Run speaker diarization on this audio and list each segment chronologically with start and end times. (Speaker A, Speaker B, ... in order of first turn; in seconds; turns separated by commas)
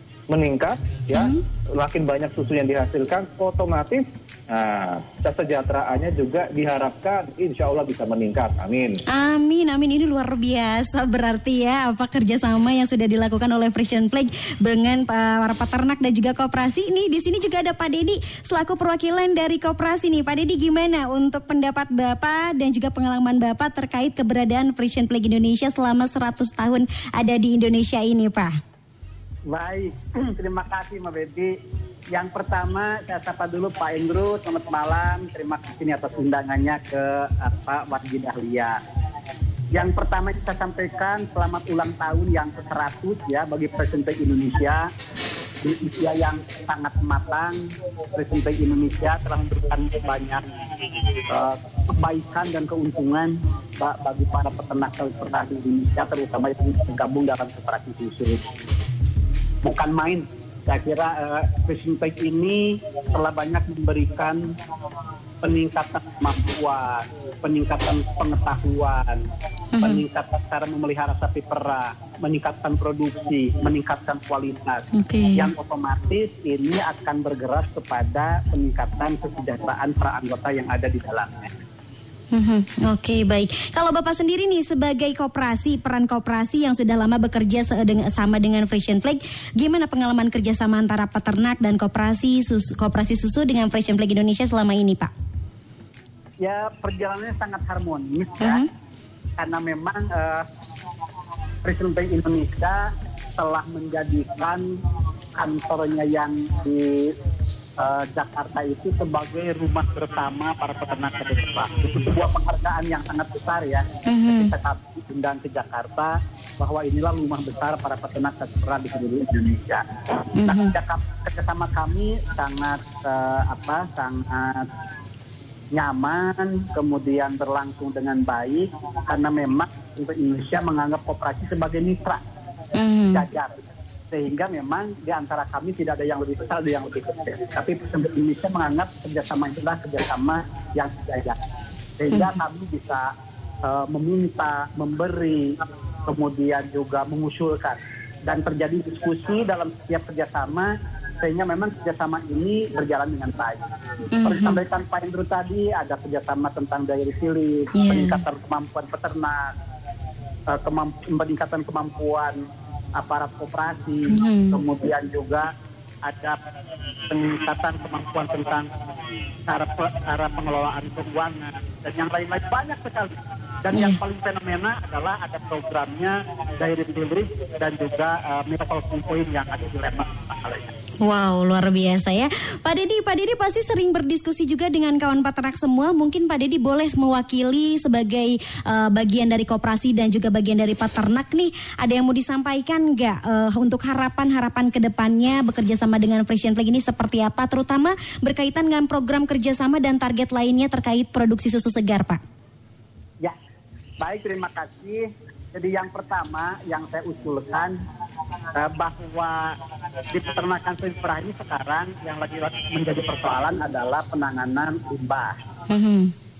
Speaker A: 0.3-9.0, Speaker B: 1.1-1.4, Speaker B: 9.1-28.6, Speaker C: 29.5-31.5, Speaker C: 32.1-38.8, Speaker C: 39.7-44.9, Speaker C: 45.6-50.4, Speaker C: 51.3-58.4, Speaker C: 59.6-64.5, Speaker C: 65.4-69.2, Speaker B: 69.7-70.0, Speaker C: 69.8-81.5, Speaker B: 74.9-75.5, Speaker B: 82.3-95.1, Speaker C: 96.4-98.6, Speaker B: 98.4-98.7, Speaker C: 99.4-100.5, Speaker C: 101.6-104.7, Speaker C: 105.3-107.1, Speaker C: 107.8-119.9, Speaker B: 114.0-114.5, Speaker B: 120.3-120.7, Speaker C: 120.4-124.7, Speaker C: 125.7-132.2, Speaker B: 132.7-133.2, Speaker C: 133.1-133.6, Speaker C: 134.1-141.4, Speaker C: 142.0-143.1, Speaker C: 143.6-153.6, Speaker B: 154.1-154.6, Speaker C: 154.2-159.5, Speaker B: 157.7-158.2, Speaker C: 160.5-162.4, Speaker C: 162.9-165.5, Speaker B: 164.1-164.6, Speaker C: 166.0-166.4, Speaker C: 167.1-168.7, Speaker C: 169.5-180.7, Speaker B: 173.7-174.0, Speaker B: 181.0-202.2, Speaker C: 204.0-207.8, Speaker C: 208.5-209.6, Speaker C: 210.1-215.4, Speaker B: 215.7-216.1